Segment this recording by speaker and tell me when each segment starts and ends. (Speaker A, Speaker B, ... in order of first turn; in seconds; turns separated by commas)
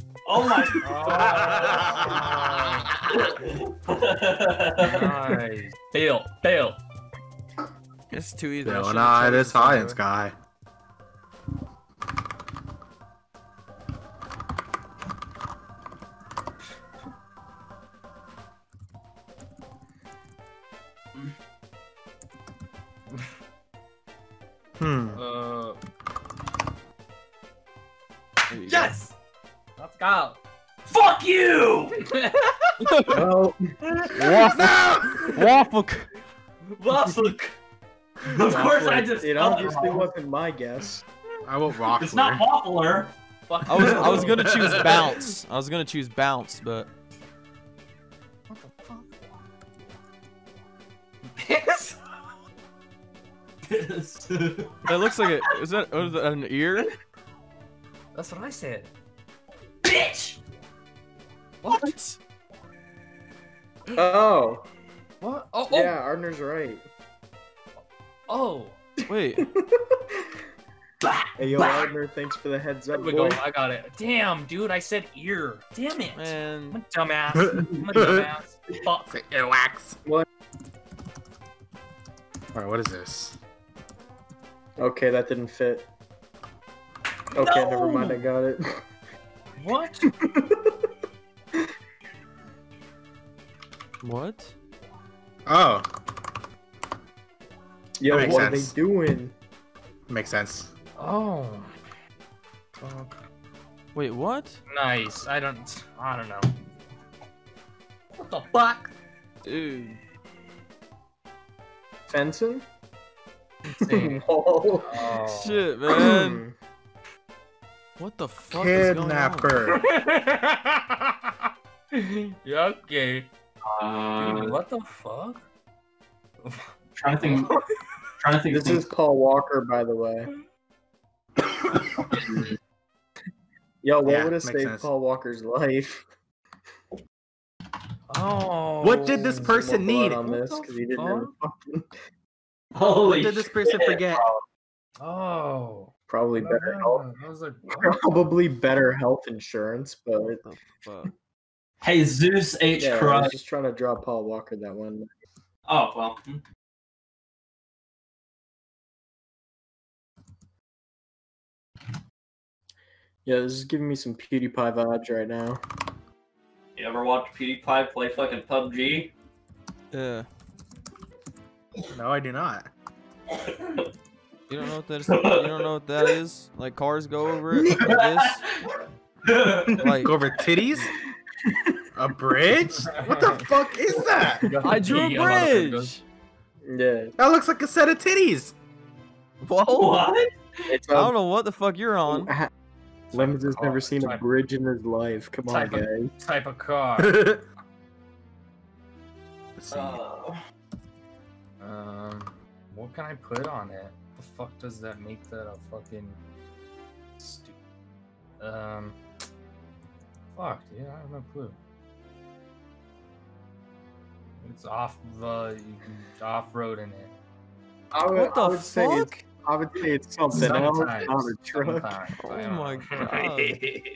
Speaker A: 0.2-2.0, Speaker B: 0.8-2.9, Speaker C: 1.1-2.9, Speaker A: 3.1-5.1, Speaker B: 4.8-6.8, Speaker D: 8.1-9.6, Speaker C: 8.6-10.3, Speaker B: 9.2-10.0, Speaker C: 24.8-25.2, Speaker B: 25.1-25.8, Speaker D: 28.5-28.9, Speaker B: 28.6-29.1, Speaker B: 29.8-30.4, Speaker A: 30.9-31.9, Speaker B: 31.9-33.1, Speaker D: 32.9-33.2, Speaker E: 33.1-33.8, Speaker D: 34.1-36.1, Speaker C: 34.3-35.4, Speaker A: 36.8-37.5, Speaker A: 38.2-40.1, Speaker E: 38.4-41.0, Speaker C: 41.4-42.4, Speaker A: 41.9-43.1, Speaker B: 43.5-45.1, Speaker D: 43.6-46.9, Speaker A: 43.7-44.2, Speaker C: 43.8-44.9, Speaker B: 48.5-49.1, Speaker B: 51.3-52.0, Speaker A: 53.7-54.9, Speaker D: 54.9-56.9, Speaker B: 58.1-58.9, Speaker A: 59.8-60.4, Speaker B: 61.6-62.2, Speaker E: 64.0-64.6, Speaker B: 65.2-66.0, Speaker E: 65.7-66.8, Speaker B: 68.3-68.8, Speaker D: 69.1-69.5, Speaker E: 69.4-70.4, Speaker A: 71.0-71.9, Speaker E: 71.4-73.4, Speaker B: 72.9-79.2, Speaker D: 76.1-76.8, Speaker C: 77.3-78.3, Speaker C: 79.1-80.0, Speaker C: 82.5-83.4, Speaker E: 84.8-85.9, Speaker E: 87.3-88.8, Speaker A: 87.4-88.2, Speaker B: 89.6-90.1, Speaker E: 90.1-90.8, Speaker D: 94.0-94.5, Speaker C: 95.5-95.9, Speaker E: 98.0-99.3, Speaker C: 98.1-98.7, Speaker C: 100.1-100.7, Speaker B: 101.0-101.7, Speaker B: 102.8-103.1, Speaker D: 103.9-104.6, Speaker B: 104.7-106.5, Speaker B: 108.1-108.9, Speaker D: 109.4-110.0, Speaker E: 112.1-112.6, Speaker B: 113.7-114.2, Speaker E: 113.8-115.0, Speaker B: 114.8-115.7, Speaker D: 115.1-116.4, Speaker E: 115.9-116.5, Speaker D: 118.0-119.5, Speaker C: 118.5-119.8, Speaker B: 119.6-121.3, Speaker B: 121.9-123.3, Speaker A: 123.7-124.5, Speaker B: 124.2-125.5, Speaker B: 126.4-126.7, Speaker A: 127.0-127.5, Speaker B: 127.2-127.7, Speaker A: 128.2-128.8, Speaker E: 128.5-130.3, Speaker A: 131.4-132.5, Speaker E: 133.8-136.0, Speaker C: 134.0-134.9, Speaker B: 138.1-139.6, Speaker C: 138.8-140.2, Speaker E: 139.4-141.9, Speaker B: 140.2-141.3, Speaker A: 142.7-144.3, Speaker C: 143.1-144.3, Speaker B: 145.0-148.0, Speaker E: 146.1-147.0, Speaker E: 147.7-150.4, Speaker D: 150.4-151.1, Speaker A: 151.8-153.4, Speaker E: 152.8-155.1, Speaker A: 155.7-156.4, Speaker E: 163.2-165.6, Speaker A: 166.8-169.1, Speaker D: 169.9-170.3, Speaker C: 171.9-172.7, Speaker A: 173.3-173.9, Speaker D: 174.5-178.4, Speaker A: 175.0-176.1, Speaker A: 177.8-178.5, Speaker A: 179.2-179.8, Speaker D: 179.8-180.2, Speaker C: 180.0-180.9, Speaker E: 181.4-181.8, Speaker C: 181.9-184.5, Speaker B: 182.7-183.5, Speaker B: 184.4-186.0, Speaker D: 184.6-186.0, Speaker E: 186.6-187.1, Speaker C: 187.2-188.5, Speaker D: 189.4-190.1, Speaker A: 189.7-190.3, Speaker E: 190.7-191.1, Speaker D: 190.9-192.3, Speaker E: 192.1-192.5, Speaker B: 193.1-194.2, Speaker E: 193.1-196.1, Speaker B: 195.5-197.3, Speaker C: 197.0-197.4, Speaker C: 199.6-200.0, Speaker A: 199.7-200.3, Speaker B: 201.6-206.2, Speaker B: 207.2-207.6, Speaker B: 208.4-208.9, Speaker B: 210.3-211.6, Speaker B: 214.4-217.1, Speaker E: 217.9-222.0, Speaker D: 218.1-219.2, Speaker B: 220.3-223.6, Speaker D: 222.2-223.6